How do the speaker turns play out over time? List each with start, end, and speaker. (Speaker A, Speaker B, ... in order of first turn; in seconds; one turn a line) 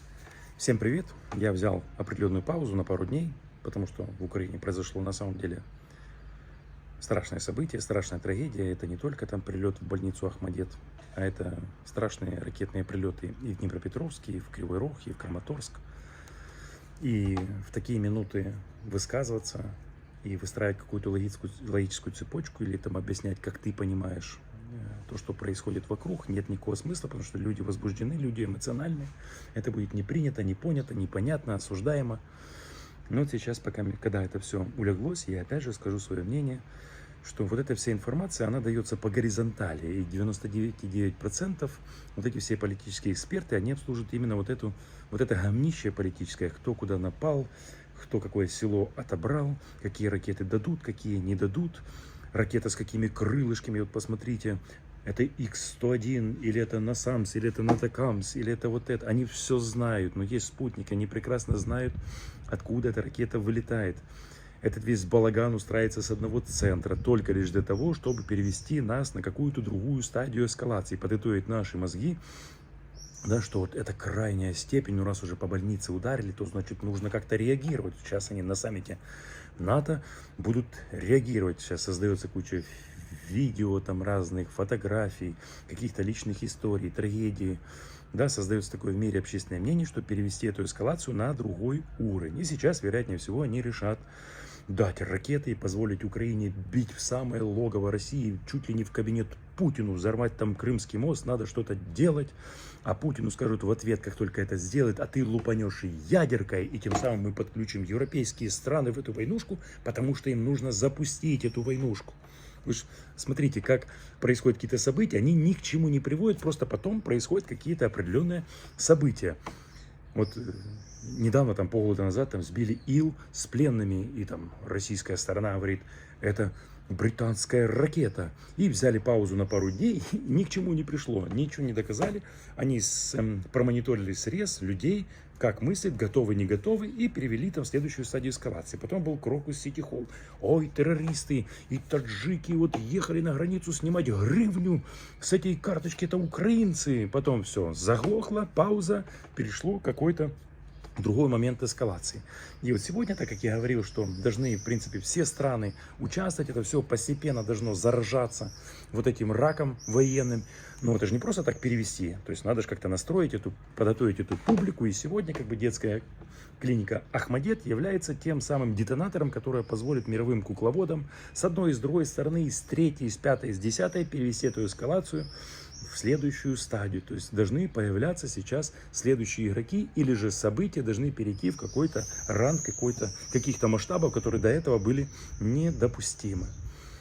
Speaker A: 0.6-5.6
Speaker A: 7.0-15.8
Speaker A: 17.0-32.2
Speaker A: 33.1-36.6
Speaker A: 37.2-62.0
Speaker A: 62.5-64.0
Speaker A: 64.6-72.2
Speaker A: 73.2-79.0
Speaker A: 79.6-87.6
Speaker A: 88.1-94.0
Speaker A: 94.7-119.4
Speaker A: 120.1-150.3
Speaker A: 151.0-166.0
Speaker A: 166.6-175.3
Speaker A: 175.8-186.5